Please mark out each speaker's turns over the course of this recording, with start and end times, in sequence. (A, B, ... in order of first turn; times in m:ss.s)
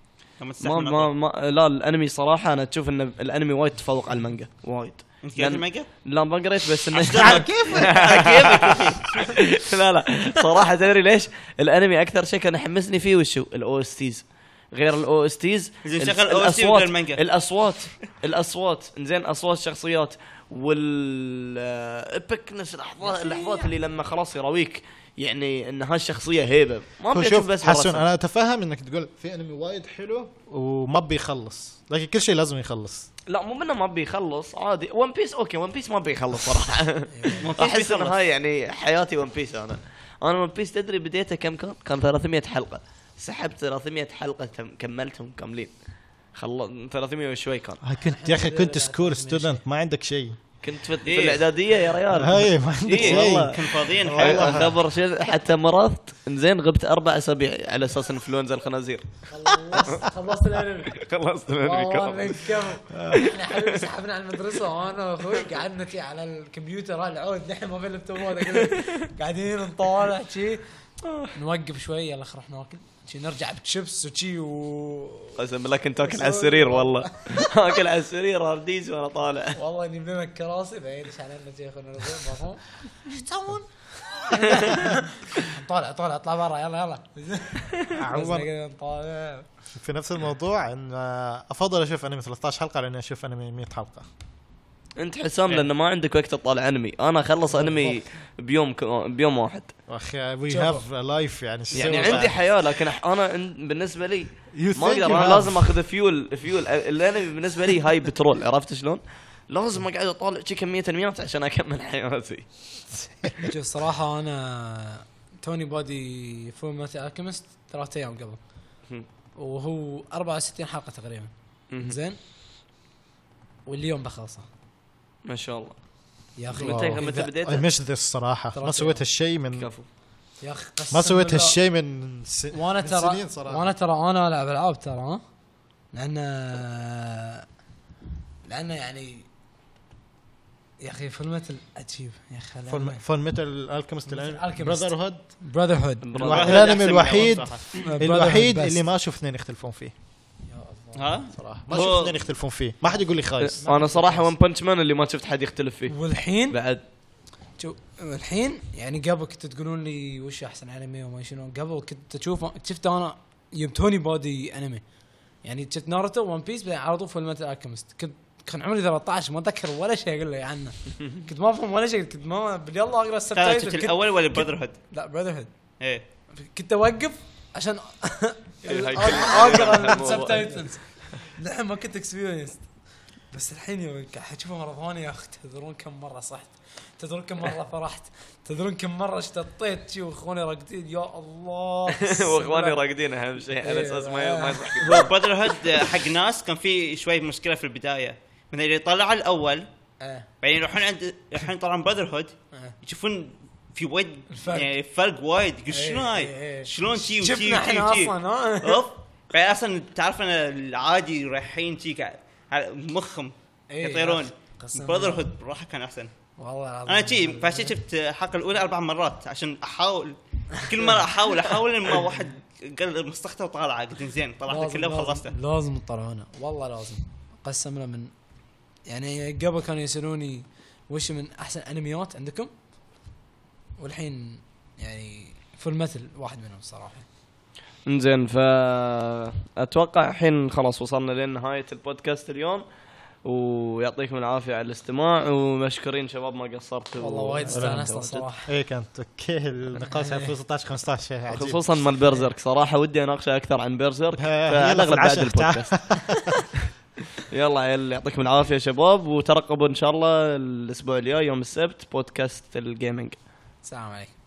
0:00.4-0:01.1 A
0:00.6-0:28.1 B
0:05.2-0:05.9 A
0:06.9-0:09.2 A
0:07.1-0:08.7 C
0:15.8-0:17.2 A
0:23.0-0:23.7 D
0:27.1-0:33.1 C
0:33.3-0:45.7 B
0:37.1-0:37.5 D
0:37.4-0:38.2 A
0:46.3-0:47.8 B
0:47.8-0:50.4 C
0:48.0-0:49.6 D
0:50.6-1:00.0 B
0:51.0-0:51.4 A
0:52.1-0:54.8 C
0:52.9-0:54.7 A
0:59.3-1:10.6 D
1:00.9-1:02.4 B
1:03.1-1:03.7 B
1:08.5-1:09.0 B
1:11.0-1:11.3 B
1:11.3-1:15.4 D
1:15.4-1:19.6 B
1:16.0-1:17.5 D
1:19.6-1:23.1 D
1:23.1-1:23.6 C
1:24.2-1:29.5 D
1:24.4-1:24.8 B
1:24.5-1:24.9 C
1:27.9-1:28.5 C
1:29.7-1:34.0 C
1:35.0-1:39.7 B
1:39.9-1:42.4 C
1:40.5-1:40.8 D
1:41.7-1:52.5 B
1:41.8-1:42.2 D
1:44.5-1:45.7 C
1:53.4-1:58.4 D
1:59.4-2:02.2 D
2:01.7-2:02.0 B
2:03.6-2:04.5 D
2:05.2-2:05.8 B
2:06.4-2:07.2 D
2:06.5-2:07.6 B
2:06.5-2:09.7 C
2:08.5-2:09.0 D
2:09.5-2:09.9 B
2:10.4-2:11.6 D
2:10.9-2:13.7 C
2:12.5-2:15.2 D
2:15.9-2:17.4 D
2:18.4-2:19.3 D
2:20.8-2:23.0 D
2:22.7-2:25.3 C
2:24.1-2:26.2 D
2:26.0-2:26.8 B
2:26.2-2:29.9 C
2:26.2-2:27.7 A
2:27.8-2:28.8 D
2:30.5-2:31.2 D
2:30.9-2:32.2 A
2:31.3-2:33.6 C
2:33.4-2:36.0 B
2:33.6-2:34.3 D
2:35.9-2:36.6 D
2:36.5-2:36.8 B
2:37.6-2:44.8 D
2:45.4-2:55.5 D
2:53.3-2:54.8 A
2:56.3-3:02.6 D
2:58.6-3:00.6 B
3:03.3-3:12.8 D
3:11.9-3:15.1 B
3:13.6-3:15.1 D
3:14.8-3:19.7 A
3:20.0-3:20.3 D
3:20.4-3:36.1 A
3:24.3-3:24.7 D
3:25.7-3:28.8 D
3:33.7-3:35.3 D
3:36.4-3:37.8 D
3:36.8-3:45.3 A
3:40.7-3:40.9 D
3:44.5-3:48.1 D
3:48.9-3:52.5 D
3:53.8-3:57.0 D
3:57.8-4:02.6 B
4:03.2-4:08.2 B
4:07.0-4:08.5 D
4:07.5-4:07.9 C
4:08.4-4:11.6 C
4:09.9-4:10.3 D
4:11.3-4:15.8 B
4:14.2-4:16.5 C
4:17.2-4:23.2 B
4:23.6-4:24.1 D